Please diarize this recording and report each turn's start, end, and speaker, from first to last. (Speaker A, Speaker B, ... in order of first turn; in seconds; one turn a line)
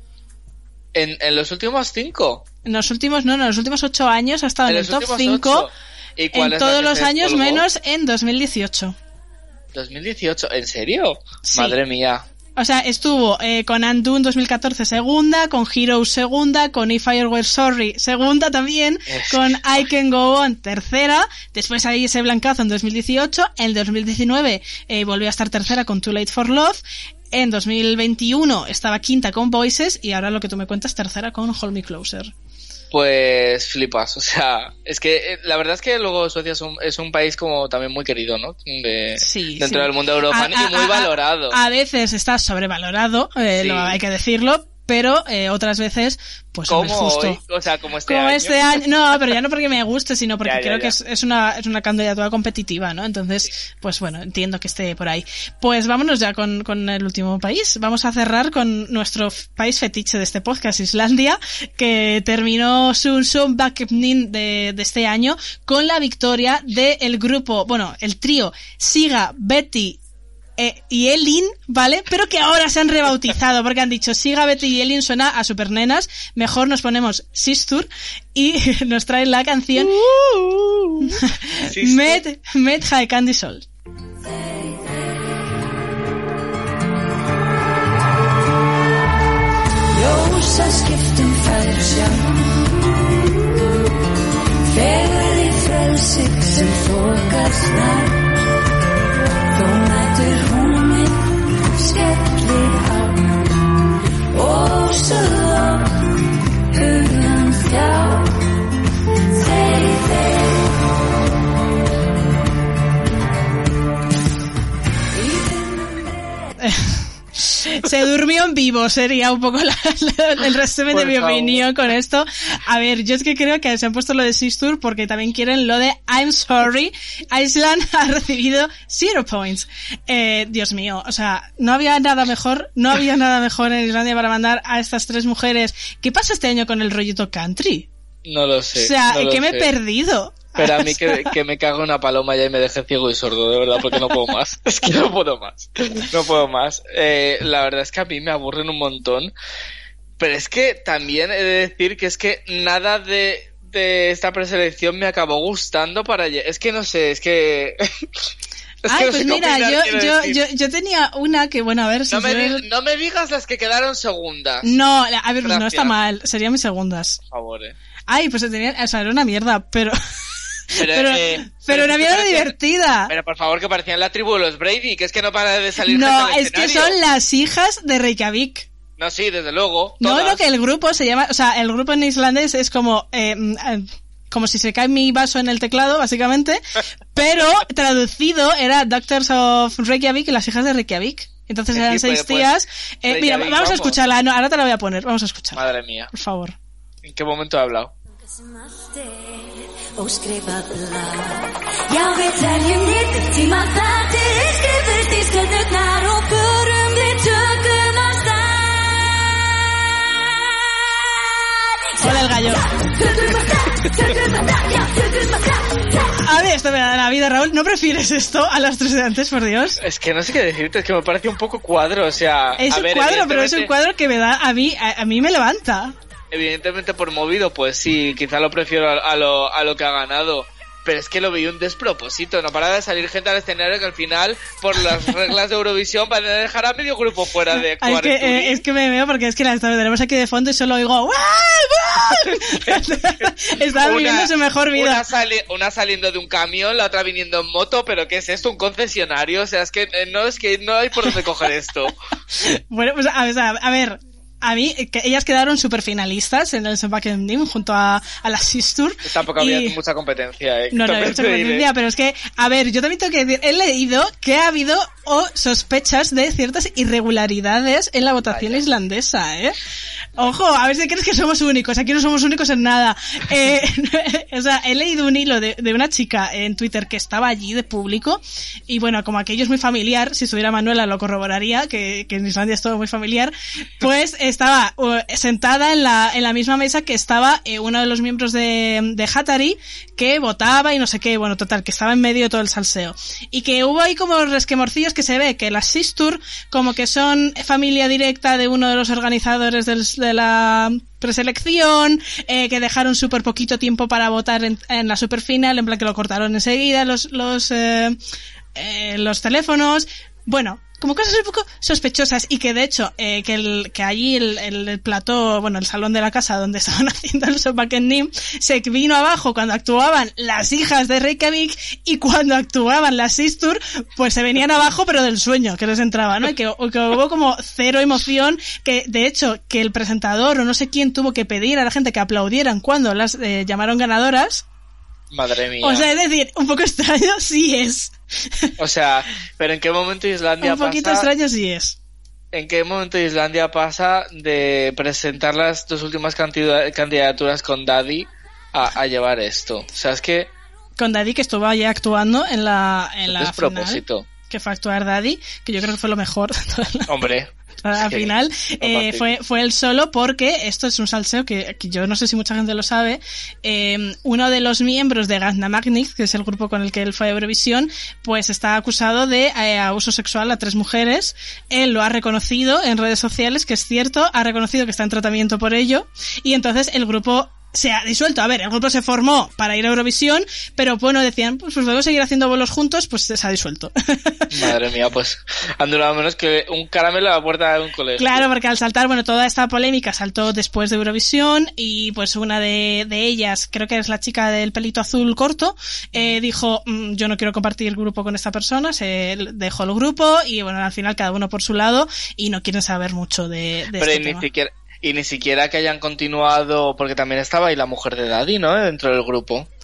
Speaker A: 0.9-2.4
Speaker B: 2.6-5.7
Speaker A: 4.7-7.6
Speaker B: 6.3-8.9
Speaker A: 9.7-12.2
Speaker B: 11.5-11.8
Speaker B: 12.6-32.3
Speaker A: 19.1-19.5
Speaker A: 32.9-41.6
Speaker B: 39.2-47.4
Speaker A: 43.6-44.0
Speaker A: 46.7-48.8
Speaker B: 48.1-70.0
Speaker A: 50.4-50.9
Speaker B: 70.6-80.0
Speaker A: 79.8-81.0
Speaker B: 81.0-83.6
Speaker A: 81.6-82.2
Speaker C: 84.3-84.8
Speaker C: 89.9-92.7
Speaker C: 94.7-98.3
Speaker C: 99.5-103.6
Speaker C: 104.3-106.1
Speaker C: 106.7-108.3
Speaker C: 109.3-110.7
Speaker C: 115.1-116.4
Speaker B: 116.6-137.9
Speaker A: 120.9-121.6
Speaker A: 138.2-139.7
Speaker B: 138.8-141.3
Speaker A: 140.6-149.3
Speaker A: 150.2-157.9
Speaker A: 158.8-160.4
Speaker B: 158.9-162.6
Speaker A: 162.1-164.7
Speaker B: 164.6-167.2
Speaker A: 165.4-165.9
Speaker A: 167.3-167.7
Speaker B: 168.1-170.0
Speaker B: 170.7-173.1
Speaker A: 170.8-172.5
Speaker A: 173.1-177.0
Speaker B: 175.8-178.7
Speaker A: 179.0-180.4
Speaker B: 180.0-196.6
Speaker A: 191.7-194.0
Speaker A: 195.5-196.1
Speaker A: 197.0-197.9
Speaker C: 198.3-210.5
Speaker C: 211.8-216.1
Speaker B: 212.0-212.6
Speaker B: 216.2-219.8
Speaker A: 219.8-223.7
Speaker B: 222.6-225.9
Speaker A: 226.3-238.6
Speaker B: 237.8-245.0
Speaker A: 242.5-251.9
Speaker B: 252.3-259.8
Speaker A: 259.0-261.6
Speaker B: 260.7-269.6
Speaker A: 268.3-268.6
Speaker B: 270.2-308.0
Speaker B: 308.5-334.4
Speaker A: 335.1-335.9
Speaker B: 335.6-338.5
Speaker A: 338.6-341.1
Speaker B: 340.4-341.8
Speaker A: 342.3-350.3
Speaker B: 350.8-357.0
Speaker A: 353.1-354.1
Speaker A: 356.9-358.1
Speaker B: 357.6-384.5
Speaker A: 358.6-359.1
Speaker A: 384.3-388.2
Speaker B: 388.0-404.2
Speaker A: 403.8-409.5